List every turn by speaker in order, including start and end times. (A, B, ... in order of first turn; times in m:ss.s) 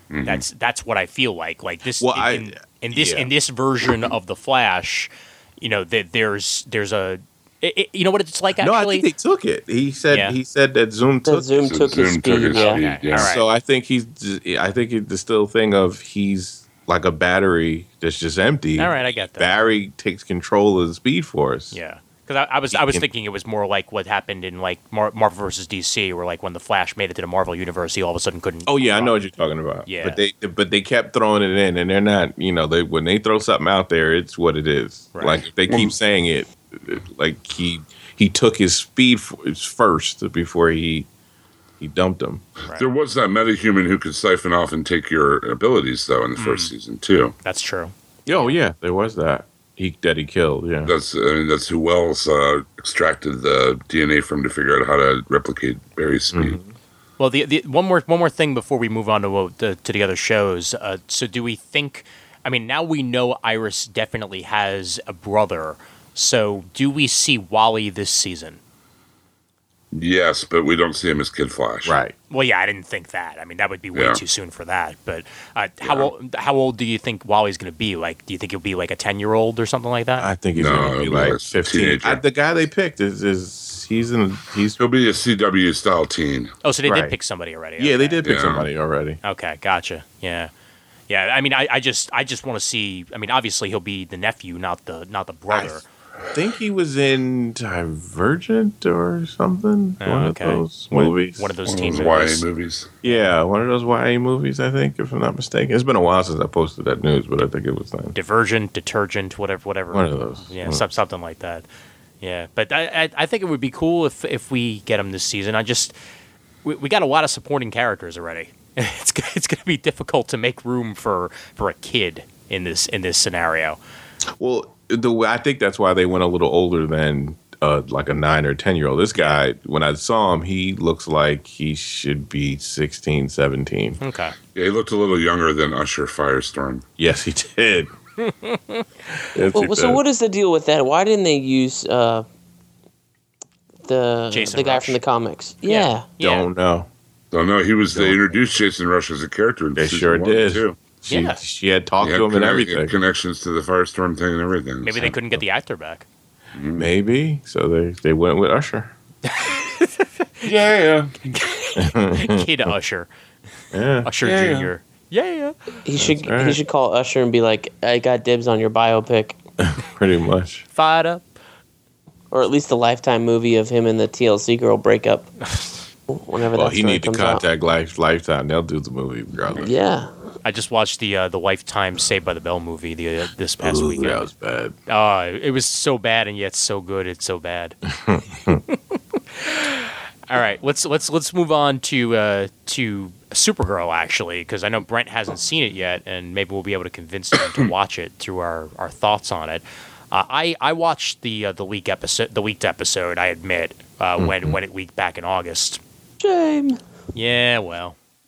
0:00.1-0:00.4 A
0:00.2-0:09.1 B
0:02.0-0:03.3 C
0:08.6-0:11.7 C
0:10.1-0:10.4 B
0:11.2-0:12.8 D
0:11.6-0:13.4 A
0:12.5-0:13.4 B
0:13.1-0:21.7 C
0:18.8-0:19.5 B
0:21.7-0:29.2 B
0:22.7-0:23.1 C
0:28.6-0:41.1 C
0:29.9-0:30.2 B
0:35.1-0:35.4 B
0:35.7-0:35.9 A
0:41.8-0:42.4 C
0:42.7-0:47.3 A
0:46.4-0:46.7 B
0:47.4-0:48.5 B
0:48.3-0:50.9 C
0:50.8-0:56.6 A
0:56.3-0:56.7 C
0:57.2-1:08.6 B
1:09.9-1:12.0 A
1:11.8-1:12.1 C
1:12.3-1:20.3 B
1:13.9-1:14.2 A
1:20.2-1:24.8 C
1:20.6-1:22.2 A
1:24.8-1:26.5 A
1:26.6-1:28.2 B
1:26.8-1:27.1 C
1:27.8-1:29.2 C
1:28.2-1:28.7 A
1:29.2-1:30.5 B
1:31.1-1:35.9 B
1:35.5-1:35.8 C
1:36.3-1:41.5 C
1:40.0-1:42.4 B
1:41.7-1:42.9 A
1:43.0-1:48.1 C
1:48.1-1:51.6 B
1:49.9-1:50.8 C
1:52.2-1:55.9 B
1:56.6-2:03.8 B
2:04.4-2:14.0 C
2:14.0-2:14.4 B
2:14.5-2:16.8 A
2:17.0-2:17.9 C
2:18.2-2:19.2 B
2:19.3-2:20.0 C
2:19.5-2:22.2 D
2:23.8-2:26.0 D
2:24.3-2:25.0 B
2:25.6-2:26.5 B
2:26.2-2:26.9 C
2:27.3-2:30.8 A
2:29.8-2:32.9 C
2:31.1-2:31.4 B
2:32.0-2:35.0 A
2:34.8-2:36.0 B
2:34.9-2:35.4 C
2:36.5-2:36.9 A
2:36.8-2:38.9 C
2:39.3-2:40.4 B
2:40.4-2:41.1 A
2:41.2-2:43.1 B
2:41.8-2:42.4 C
2:43.7-2:44.7 C
2:44.0-2:45.5 B
2:44.2-2:44.6 A
2:45.8-2:49.4 D
2:46.0-2:46.6 C
2:49.6-2:50.6 C
2:50.7-2:51.2 B
2:52.3-2:55.3 D
2:55.5-2:55.7 B
2:56.1-2:57.4 D
2:56.5-2:59.7 C
2:59.6-3:00.1 D
3:00.4-3:04.2 B
3:03.6-3:04.7 C
3:04.9-3:07.8 B
3:08.0-3:08.6 C
3:09.3-3:25.8 B
3:24.2-3:24.6 C
3:26.2-3:26.8 D
3:27.1-3:28.0 B